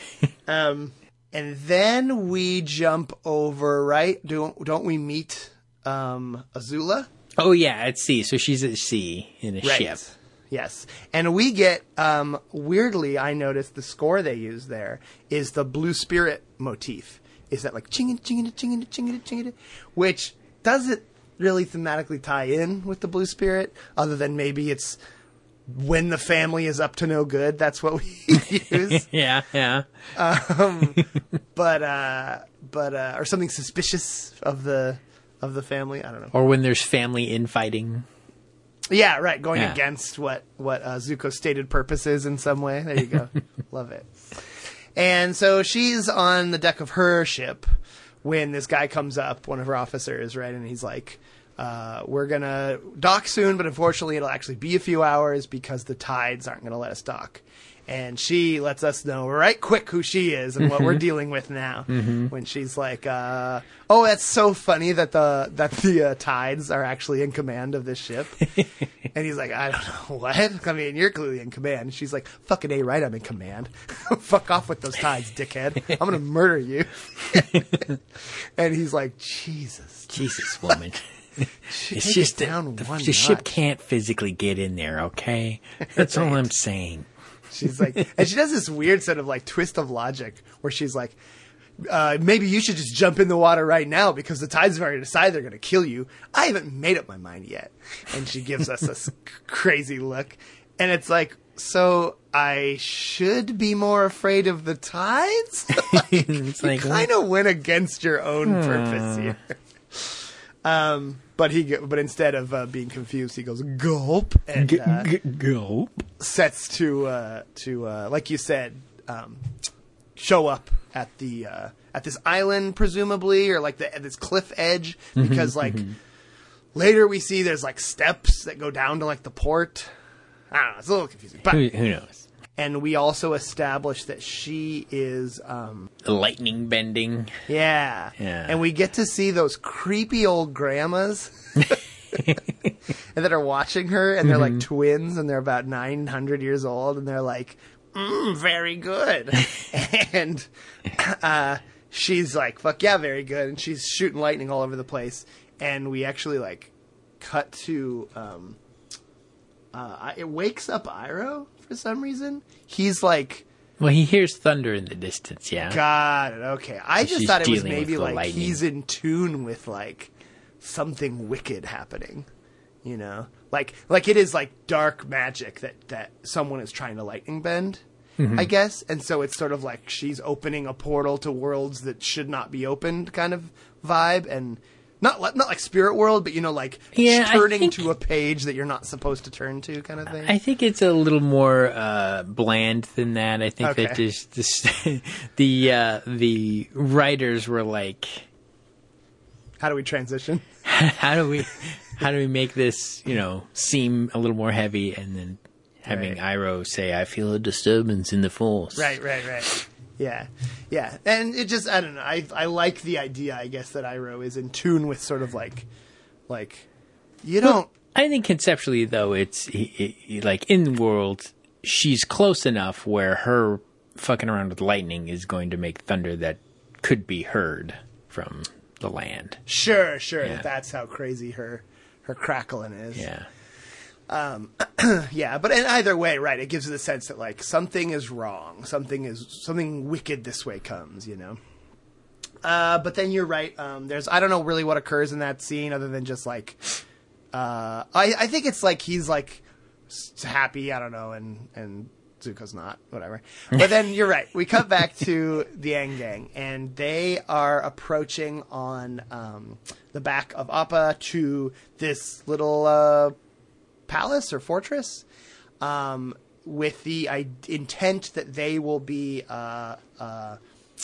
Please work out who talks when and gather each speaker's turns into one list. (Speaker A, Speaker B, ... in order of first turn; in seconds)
Speaker A: 0.5-7.1, 9.6-25.0, 25.7-29.1, 30.1-36.3, 38.9-47.6, 48.2-68.5, 69.1-78.0, 78.6-80.8, 81.7-83.5, 85.9-86.4, 87.5-91.2, 91.8-109.4, 109.9-115.1, 116.2-119.5, 120.2-125.9, 126.8-129.9, 130.5-131.7, 132.6-135.9, 137.5-142.4, 143.1-158.6, 159.7-163.4, 165.7-172.3, 172.8-177.8, 178.3-190.3, 193.6-194.0, 199.6-200.5, 205.9-206.2, 208.7-215.7, 216.3-216.7, 217.2-217.7, 229.4-233.1, 234.1-241.4, 242.4-246.7, 247.3-263.1, 263.9-265.0, 265.6-270.4
Speaker B: 7.4-10.0, 28.7-29.9, 36.3-38.0, 61.9-62.3, 80.1-87.1, 105.9-107.1, 108.5-109.3, 114.6-116.0, 125.2-126.0, 131.5-132.2, 136.0-137.4, 138.2-138.5, 144.3-144.6, 163.8-165.8, 167.0-168.6, 178.2-178.5, 186.9-187.8, 190.1-198.3, 200.6-209.0, 217.4-229.4, 232.9-233.3